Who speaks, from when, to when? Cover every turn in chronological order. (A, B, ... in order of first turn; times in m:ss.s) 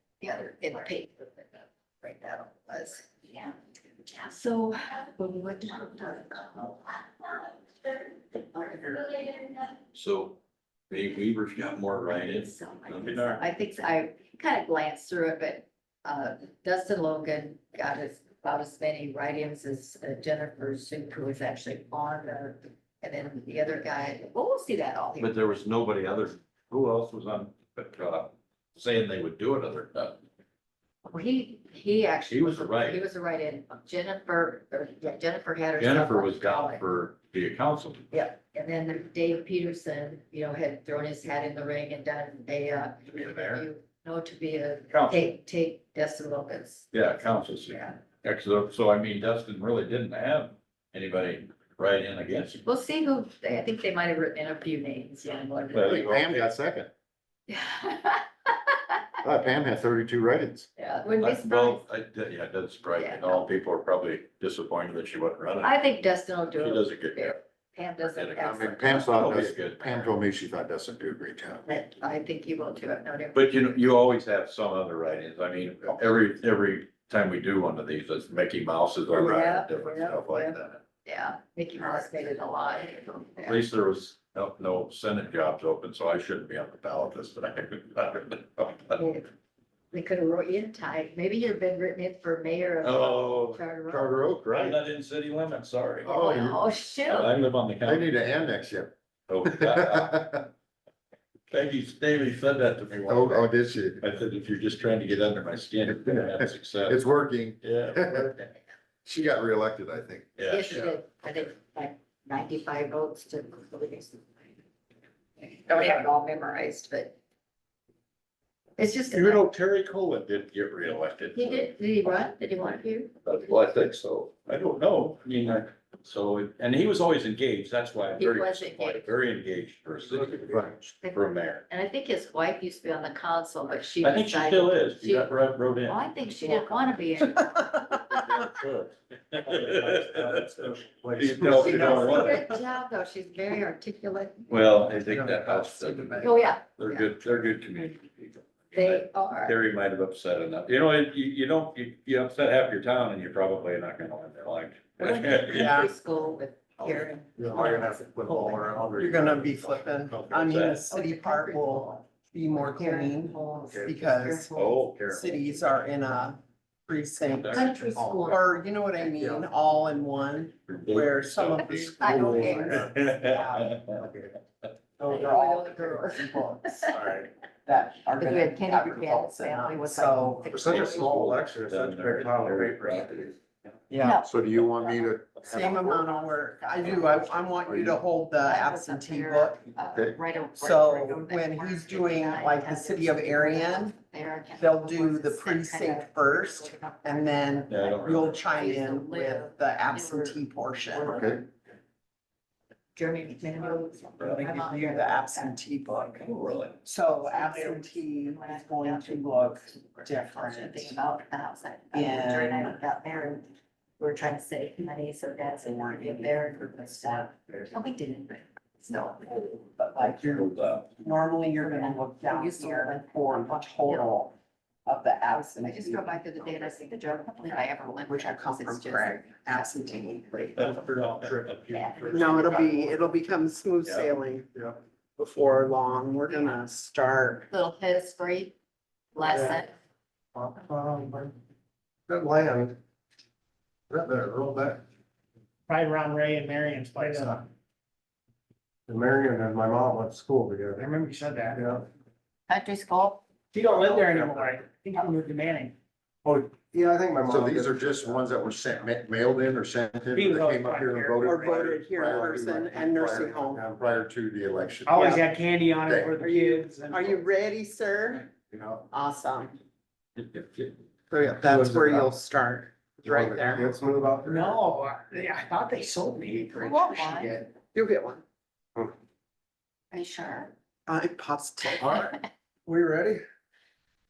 0:00.2-0:01.5 A
0:02.0-0:03.5 A
0:04.1-0:07.3 A
0:08.5-0:09.6 A
0:09.9-0:10.4 B
0:10.9-0:13.4 B
0:12.4-0:25.4 A
0:25.2-0:30.2 B
0:31.1-0:36.8 A
0:32.3-0:33.0 B
0:35.8-0:38.1 B
0:38.1-0:46.9 A
0:43.1-0:43.6 B
0:44.9-0:45.3 B
0:46.9-0:52.6 B
0:47.7-0:48.0 A
0:52.6-0:56.1 A
0:55.7-0:56.4 B
0:55.8-0:56.9 C
0:57.5-0:59.0 A
0:59.2-1:00.7 C
1:00.8-1:01.8 A
1:01.2-1:05.8 B
1:03.0-1:03.4 A
1:05.6-1:09.1 A
1:06.5-1:07.3 B
1:08.0-1:10.2 B
1:08.4-1:11.6 C
1:11.6-1:13.8 A
1:13.3-1:20.8 B
1:19.1-1:23.6 A
1:23.4-1:29.0 B
1:29.0-1:29.3 A
1:29.9-1:34.1 A
1:32.8-1:33.6 B
1:33.9-1:34.8 C
1:34.4-1:36.1 B
1:36.0-1:36.6 C
1:36.0-1:37.3 A
1:37.0-1:38.1 B
1:37.8-1:40.4 C
1:39.3-1:40.4 B
1:41.5-1:47.0 B
1:43.1-1:44.0 C
1:46.1-1:48.3 C
1:47.6-1:48.4 B
1:49.0-1:50.3 C
1:50.4-1:50.9 B
1:50.4-1:54.4 A
1:55.4-1:57.2 A
1:58.8-1:59.4 A
1:59.1-2:01.7 B
2:01.3-2:03.1 A
2:03.2-2:11.6 B
2:08.2-2:09.1 A
2:11.0-2:15.3 A
2:14.0-2:16.5 B
2:15.8-2:18.4 A
2:18.1-2:22.6 B
2:19.4-2:22.2 D
2:21.3-2:21.7 C
2:21.4-2:24.6 A
2:24.5-2:35.8 B
2:25.4-2:26.1 D
2:26.2-2:27.1 A
2:28.7-2:29.6 A
2:35.0-2:38.8 A
2:35.5-2:35.9 E
2:37.4-2:39.6 D
2:39.0-2:53.8 E
2:40.1-2:40.9 B
2:40.9-2:42.0 A
2:42.6-2:44.8 A
2:44.5-2:45.8 B
2:47.3-2:47.8 B
2:47.5-2:48.6 A
2:48.0-2:48.2 D
2:50.7-2:54.7 B
2:52.0-2:52.8 A
2:52.0-2:52.8 D
2:54.0-2:54.3 D
2:55.0-2:55.4 D
2:55.0-2:56.9 E
2:55.0-2:57.0 A
2:56.9-2:57.3 D
2:57.6-3:00.5 E
2:58.2-3:01.1 A
3:00.5-3:03.4 B
3:00.5-3:03.1 D
3:03.9-3:04.2 E
3:04.0-3:06.1 A
3:04.2-3:06.0 C
3:05.4-3:09.6 E
3:06.8-3:07.3 A
3:08.4-3:21.5 A
3:10.6-3:13.9 E
3:14.6-3:21.2 E
3:17.7-3:18.4 B
3:21.0-3:21.4 C
3:22.9-3:25.6 A
3:24.2-3:24.4 B
3:24.3-3:26.2 E
3:26.2-3:26.8 B
3:26.8-3:31.0 E
3:27.2-3:39.5 A
3:31.9-3:32.7 E
3:35.8-3:36.2 E
3:39.8-3:44.3 E
3:40.3-3:40.8 B
3:41.6-3:43.3 A
3:43.8-3:44.1 A
3:44.8-3:46.2 E
3:45.6-3:50.7 A
3:48.1-3:50.8 E
3:50.6-3:51.6 B
3:51.3-3:52.4 D
3:51.7-3:52.6 A
3:52.1-3:54.5 E
3:52.3-3:52.7 B
3:53.8-3:54.1 B
3:55.2-3:57.4 E
3:57.5-3:58.6 A
3:59.1-3:59.7 A
3:59.3-3:59.6 D
4:00.3-4:01.3 D
4:02.1-4:02.8 D
4:03.9-4:04.8 D
4:05.7-4:07.4 F
4:07.0-4:07.4 D
4:08.9-4:10.9 D
4:10.8-4:11.6 F
4:11.5-4:11.8 D
4:12.5-4:13.2 A
4:13.5-4:15.7 F
4:14.1-4:14.5 D
4:16.2-4:18.2 D
4:17.3-4:26.2 C
4:20.1-4:21.5 F
4:21.2-4:23.6 E
4:24.8-4:27.2 F
4:26.2-4:28.3 E
4:28.9-4:29.6 E
4:30.2-4:30.7 B
4:31.1-4:33.7 E
4:31.4-4:32.1 D
4:33.0-4:34.6 D
4:34.3-4:37.4 F
4:36.5-4:37.4 A
4:37.6-4:38.2 E
4:39.9-4:40.5 A
4:40.9-4:42.2 E
4:41.8-4:42.1 D
4:42.6-4:43.2 D